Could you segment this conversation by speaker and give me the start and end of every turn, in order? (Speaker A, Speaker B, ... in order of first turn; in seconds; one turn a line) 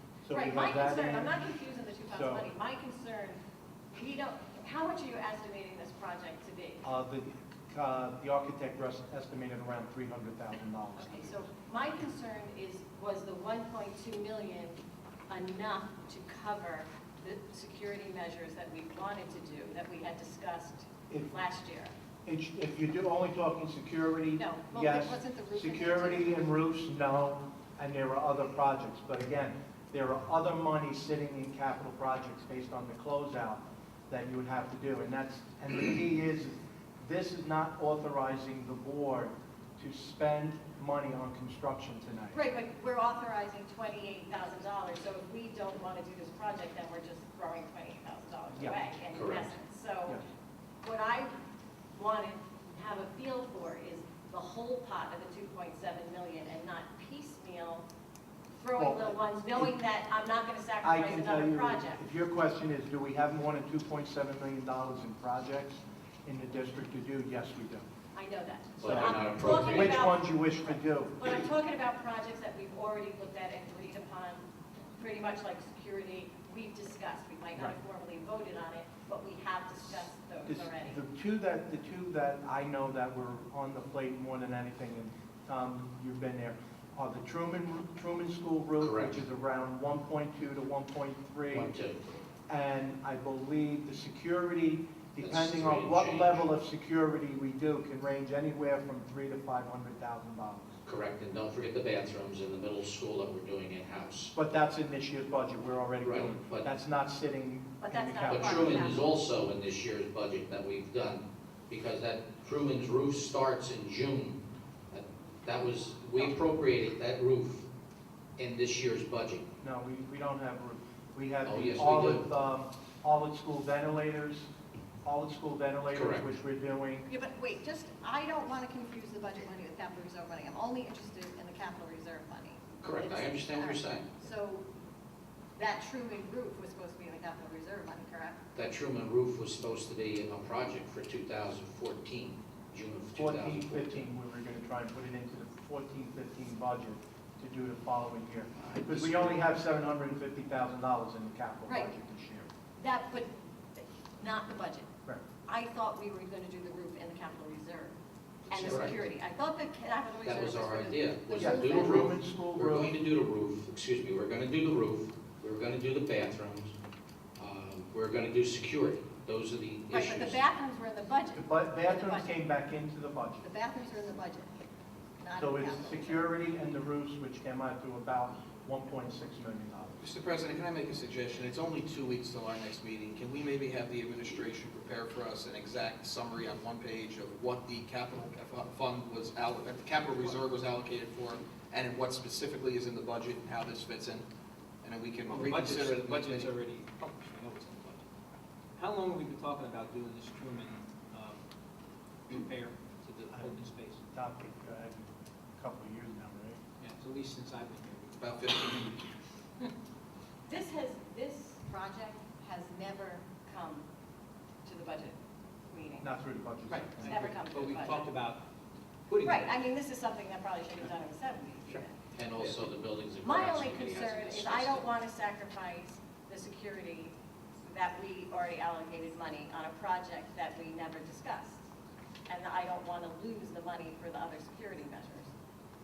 Speaker A: 0.2-1.3
Speaker B: 0.3-3.4
Speaker A: 2.1-2.5
Speaker B: 3.9-6.8
Speaker A: 6.8-11.3
Speaker B: 11.0-21.9
Speaker A: 22.3-42.4
Speaker B: 24.4-26.4
Speaker B: 42.3-50.2
Speaker A: 48.5-48.8
Speaker C: 49.1-49.5
Speaker B: 50.8-51.3
Speaker B: 51.9-57.9
Speaker B: 58.6-62.0
Speaker A: 58.8-59.7
Speaker A: 60.8-67.9
Speaker B: 68.2-74.4
Speaker C: 68.8-70.1
Speaker A: 68.8-71.2
Speaker B: 75.0-81.0
Speaker A: 80.5-91.7
Speaker C: 88.8-89.2
Speaker C: 91.5-92.0
Speaker A: 92.5-100.8
Speaker C: 95.2-96.4
Speaker C: 100.8-104.3
Speaker A: 104.3-109.0
Speaker C: 106.0-106.7
Speaker B: 107.8-109.1
Speaker C: 108.3-117.7
Speaker C: 118.4-119.5
Speaker A: 119.6-124.5
Speaker C: 121.5-122.3
Speaker A: 125.0-127.1
Speaker C: 125.9-126.3
Speaker B: 127.1-134.7
Speaker C: 132.8-134.1
Speaker B: 135.6-138.4
Speaker C: 138.6-144.1
Speaker A: 143.2-152.5
Speaker C: 148.6-149.5
Speaker B: 152.8-154.9
Speaker B: 155.5-158.0
Speaker B: 158.5-162.2
Speaker C: 158.5-159.0
Speaker A: 158.6-158.9
Speaker C: 160.2-166.7
Speaker A: 161.4-162.9
Speaker C: 167.4-170.4
Speaker B: 169.9-172.4
Speaker A: 171.3-173.4
Speaker B: 173.4-174.5
Speaker B: 175.2-176.3
Speaker A: 175.4-179.9
Speaker D: 180.0-194.3
Speaker D: 194.8-196.6
Speaker E: 195.3-198.0
Speaker E: 198.8-201.4
Speaker E: 202.3-204.0
Speaker A: 204.1-206.6
Speaker E: 206.8-208.8
Speaker D: 208.2-209.0
Speaker B: 210.5-213.9
Speaker B: 214.7-216.1
Speaker A: 216.0-217.2
Speaker E: 216.7-218.5
Speaker B: 217.0-218.1
Speaker E: 219.1-219.5
Speaker B: 219.2-222.0
Speaker C: 222.1-224.9
Speaker B: 223.2-231.7
Speaker B: 232.3-235.3